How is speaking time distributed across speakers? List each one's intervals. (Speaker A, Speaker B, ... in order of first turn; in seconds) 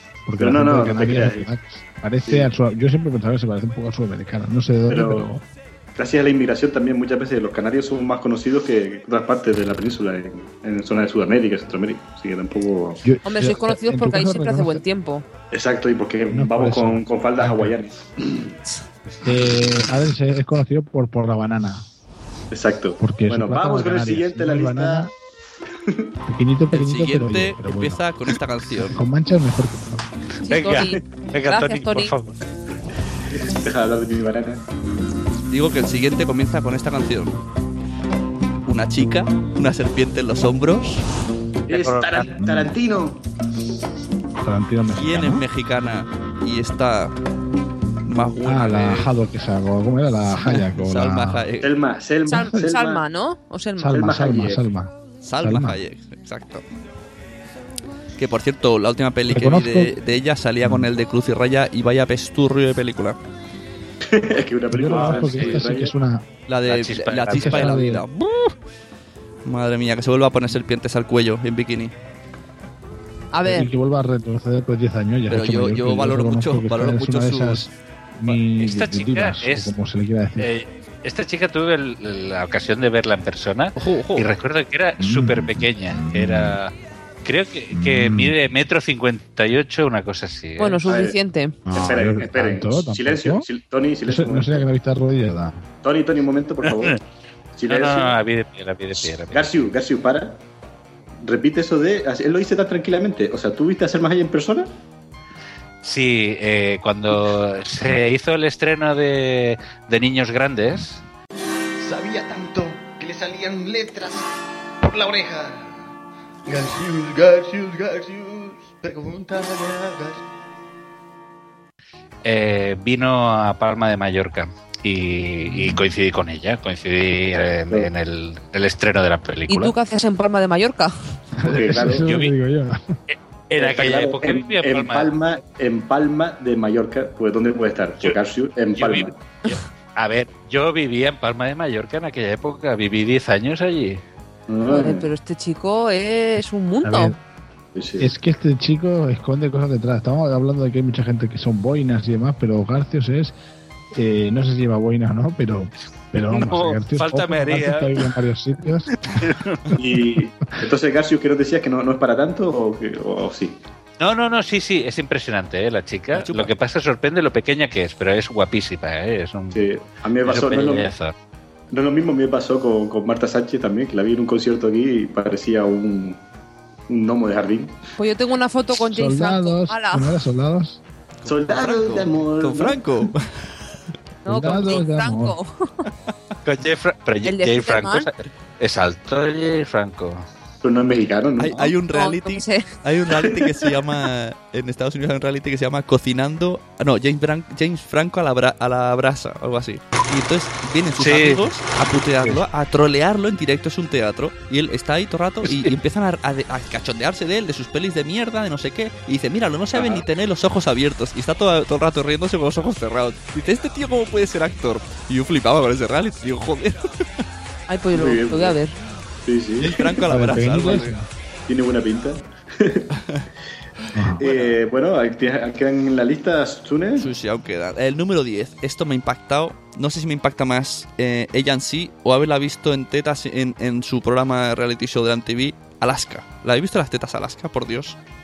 Speaker A: 0.3-5.4, 13.0-14.8, 16.3-17.7, 19.2-21.9, 23.0-25.1, 26.3-28.0, 28.8-30.1, 42.4-42.7, 44.4-45.5, 48.4-51.5, 53.8-55.8, 59.3-59.9, 60.6-60.9, 64.7-66.3, 67.3-68.0, 73.5-80.5, 85.0-86.6, 87.7-88.3, 91.7-93.5, 94.1-95.7, 125.4-125.9, 131.4-132.9, 146.8-147.2, 148.0-153.3, 153.9-158.9, 178.8-180.8, 184.3-185.4, 220.1-221.1, 223.9-224.2
Speaker B: 0.4-1.5, 2.2-2.5, 4.9-5.3, 6.0-13.0, 15.5-18.5, 22.5-25.1, 33.4-34.6, 41.7-43.2, 51.6-53.0, 53.9-54.6, 64.0-65.9, 90.8-91.2, 91.7-94.7, 95.8-97.0, 97.5-98.2, 99.3-100.4, 101.2-104.7, 131.4-132.1, 133.6-139.2, 144.5-145.1, 147.8-148.1, 159.8-163.6, 169.5-170.9, 171.7-176.2, 176.9-177.8, 181.3-182.8, 190.6-191.7, 209.8-210.0, 217.9-218.6, 219.3-220.0, 221.5-222.9, 224.2-227.1
Speaker C: 13.2-15.3, 30.4-32.1, 52.3-54.1, 73.3-73.7, 90.6-91.6, 129.5-130.9, 144.7-147.2, 178.0-180.2, 184.2-185.8, 187.2-188.1, 191.9-192.7, 217.7-218.8
Speaker D: 26.7-29.0, 35.5-37.4, 38.7-41.1, 45.0-47.1, 48.0-49.1, 50.3-51.8, 55.2-56.6, 58.2-63.2, 66.5-68.5, 69.5-71.9, 75.3-77.7, 83.8-84.3, 166.1-166.5, 181.2-183.3, 191.4-216.9, 219.6-221.0, 224.2-224.6, 227.0-238.0
Speaker E: 30.5-32.4, 41.7-42.4, 64.9-65.6, 66.7-67.9, 78.3-79.7, 80.4-86.7, 87.2-90.9, 96.6-97.0, 97.7-99.5, 105.8-111.0, 122.2-129.7, 131.9-132.3, 133.1-135.2, 138.7-144.0, 156.3-158.1, 159.1-159.7, 164.0-169.7, 170.2-171.2, 186.4-190.2, 201.0-201.4, 205.5-205.7
Speaker F: 111.8-114.3, 114.8-115.9, 116.5-120.2